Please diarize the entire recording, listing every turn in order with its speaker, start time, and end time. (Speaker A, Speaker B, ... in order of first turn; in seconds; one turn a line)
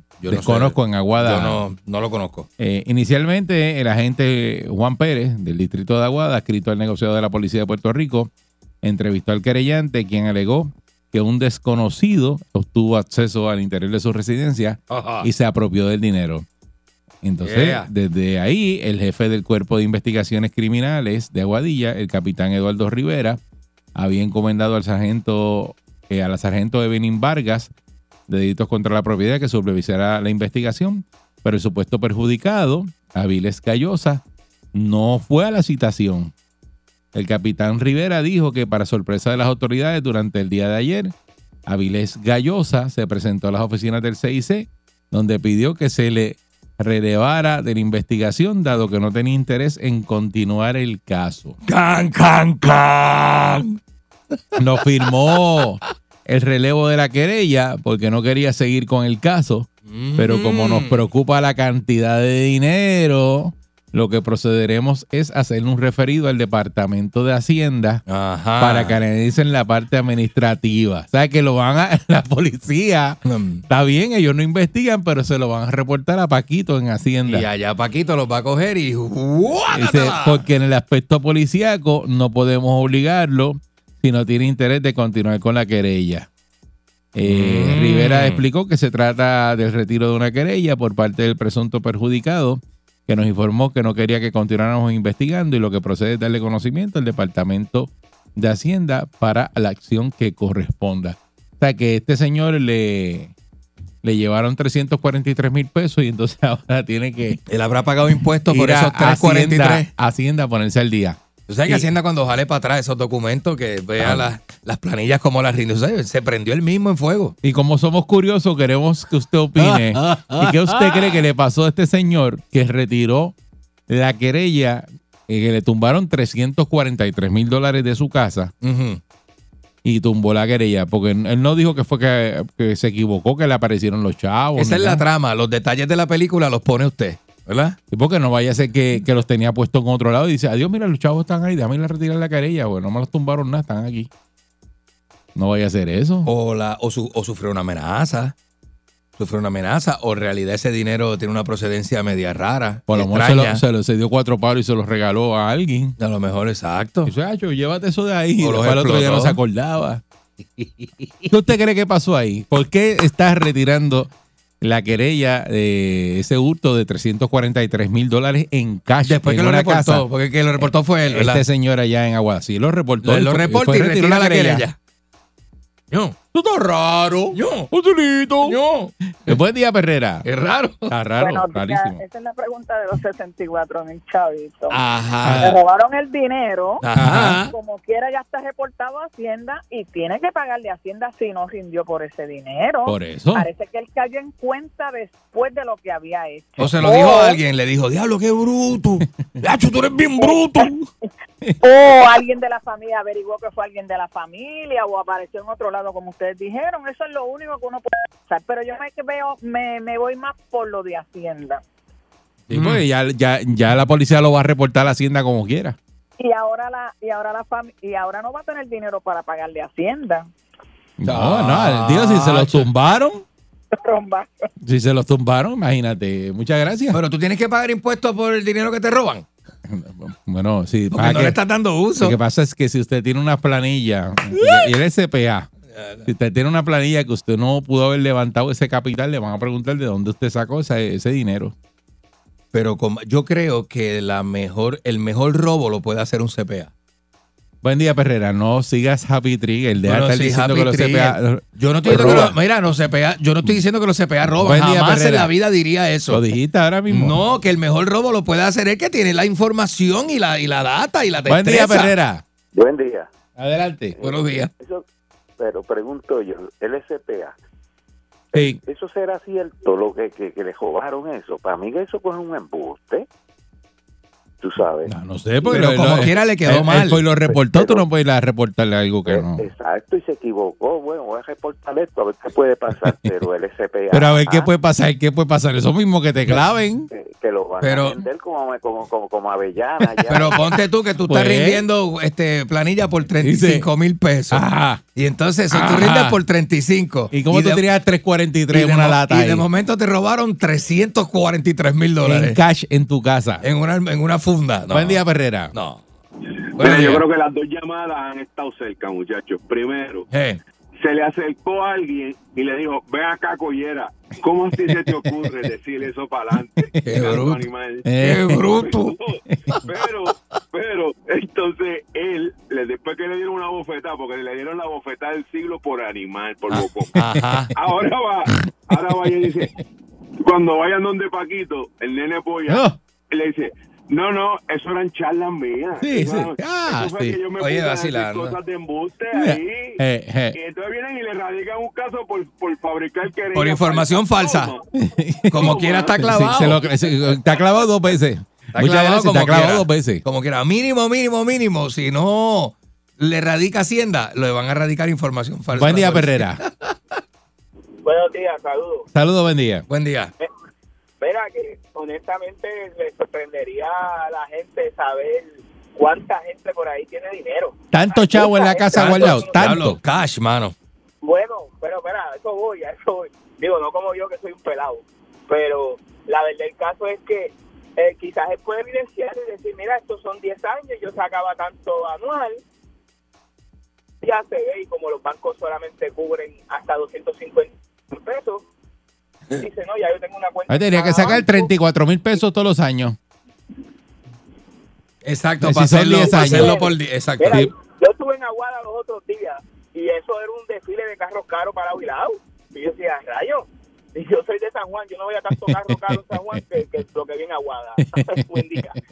Speaker A: 0.2-2.5
Speaker B: 0.3-1.6
Speaker B: 2.6-8.3
Speaker B: 8.8-16.5
Speaker A: 14.9-15.3
Speaker B: 17.2-23.4
Speaker A: 17.4-17.9
Speaker B: 23.9-27.7
Speaker B: 28.3-34.2
Speaker B: 34.7-36.3
Speaker B: 37.1-41.1
Speaker B: 41.7-51.6
Speaker A: 51.6-53.8
Speaker B: 54.6-68.0
Speaker A: 59.9-61.0
Speaker A: 68.1-69.0
Speaker B: 68.6-73.2
Speaker A: 73.3-73.6
Speaker B: 73.7-77.5
Speaker A: 77.3-80.4
Speaker B: 79.7-86.3
Speaker B: 87.2-103.3
Speaker A: 87.3-88.4
Speaker B: 104.0-107.4
Speaker A: 107.5-109.9
Speaker B: 108.5-111.9
Speaker A: 111.5-117.3
Speaker B: 114.0-114.3
Speaker B: 117.4-123.3
Speaker A: 119.6-121.2
Speaker B: 123.9-128.5
Speaker A: 128.6-129.0
Speaker B: 129.8-135.0
Speaker A: 134.6-137.8
Speaker B: 137.9-144.1
Speaker B: 145.3-146.3
Speaker A: 146.2-148.3
Speaker A: 149.2-153.6
Speaker B: 152.9-155.9
Speaker A: 156.0-157.1
Speaker B: 157.1-160.0
Speaker A: 158.4-159.4
Speaker A: 160.6-161.2
Speaker B: 161.3-174.7
Speaker A: 169.1-171.4
Speaker A: 173.0-174.8
Speaker A: 175.9-176.2
Speaker B: 176.3-178.6
Speaker A: 177.3-177.7
Speaker A: 178.4-179.3
Speaker B: 179.2-180.3
Speaker A: 180.2-180.9
Speaker B: 180.9-182.0
Speaker C: 181.2-184.8
Speaker A: 184.7-185.6
Speaker B: 185.2-185.6
Speaker C: 185.4-186.8
Speaker A: 186.8-187.6
Speaker B: 186.9-187.4
Speaker C: 187.5-197.4
Speaker B: 192.9-193.5
Speaker A: 196.6-200.9
Speaker C: 200.2-200.6
Speaker C: 201.6-211.6
Speaker B: 212.5-215.8
Speaker A: 212.5-212.8
Speaker C: 216.2-220.3
Speaker B: 221.0-223.2
Speaker A: 221.1-222.7
Speaker C: 223.7-224.5
Speaker B: 224.6-227.0
Speaker A: 226.9-229.2
Speaker B: 229.7-231.4
Speaker A: 230.9-232.2
Speaker B: 232.0-235.5
Speaker A: 235.7-236.1
Speaker B: 236.1-241.5
Speaker A: 242.5-246.7
Speaker B: 247.6-252.4
Speaker A: 249.8-256.2
Speaker B: 254.3-255.3
Speaker B: 256.1-257.2
Speaker A: 256.9-261.9
Speaker B: 261.3-262.2
Speaker D: 262.5-263.1
Speaker B: 263.4-264.0
Speaker D: 264.0-264.9
Speaker A: 264.0-264.5
Speaker D: 265.4-267.4
Speaker B: 268.3-268.6
Speaker D: 268.4-273.1
Speaker D: 274.4-274.9
Speaker B: 274.9-279.4
Speaker D: 275.5-275.8
Speaker A: 275.5-277.1
Speaker D: 277.3-277.8
Speaker D: 279.1-284.5
Speaker B: 283.9-286.9
Speaker D: 286.9-290.6
Speaker A: 287.6-288.0
Speaker A: 290.1-294.4
Speaker B: 291.1-291.6
Speaker B: 293.2-293.7
Speaker B: 294.3-294.8
Speaker A: 294.9-297.6
Speaker B: 295.5-296.2
Speaker B: 297.1-299.5
Speaker A: 298.5-302.4
Speaker B: 302.0-303.4
Speaker A: 303.4-305.0
Speaker B: 304.7-305.5
Speaker A: 305.5-305.8
Speaker E: 306.6-310.1
Speaker A: 306.6-307.0
Speaker A: 310.1-310.4
Speaker E: 310.8-317.9
Speaker A: 316.8-317.5
Speaker B: 317.9-318.4
Speaker A: 318.0-318.9
Speaker E: 318.6-326.9
Speaker A: 326.5-327.5
Speaker E: 327.5-329.5
Speaker E: 330.2-339.8
Speaker B: 332.5-332.8
Speaker B: 335.8-337.2
Speaker A: 337.4-338.4
Speaker B: 339.1-340.4
Speaker E: 340.3-344.6
Speaker A: 343.3-344.6
Speaker B: 344.8-350.0
Speaker A: 345.3-346.6
Speaker E: 345.4-346.0
Speaker A: 348.5-356.7
Speaker B: 355.5-356.4
Speaker F: 357.8-358.9
Speaker B: 358.9-359.6
Speaker A: 359.7-360.1
Speaker F: 361.0-369.4
Speaker B: 367.7-369.8
Speaker A: 368.7-370.5
Speaker F: 371.0-382.4
Speaker F: 384.0-388.5
Speaker F: 389.4-391.5
Speaker B: 390.5-393.0
Speaker A: 395.0-397.4
Speaker B: 395.4-396.7
Speaker F: 396.1-408.8
Speaker B: 405.4-406.4
Speaker B: 407.9-408.7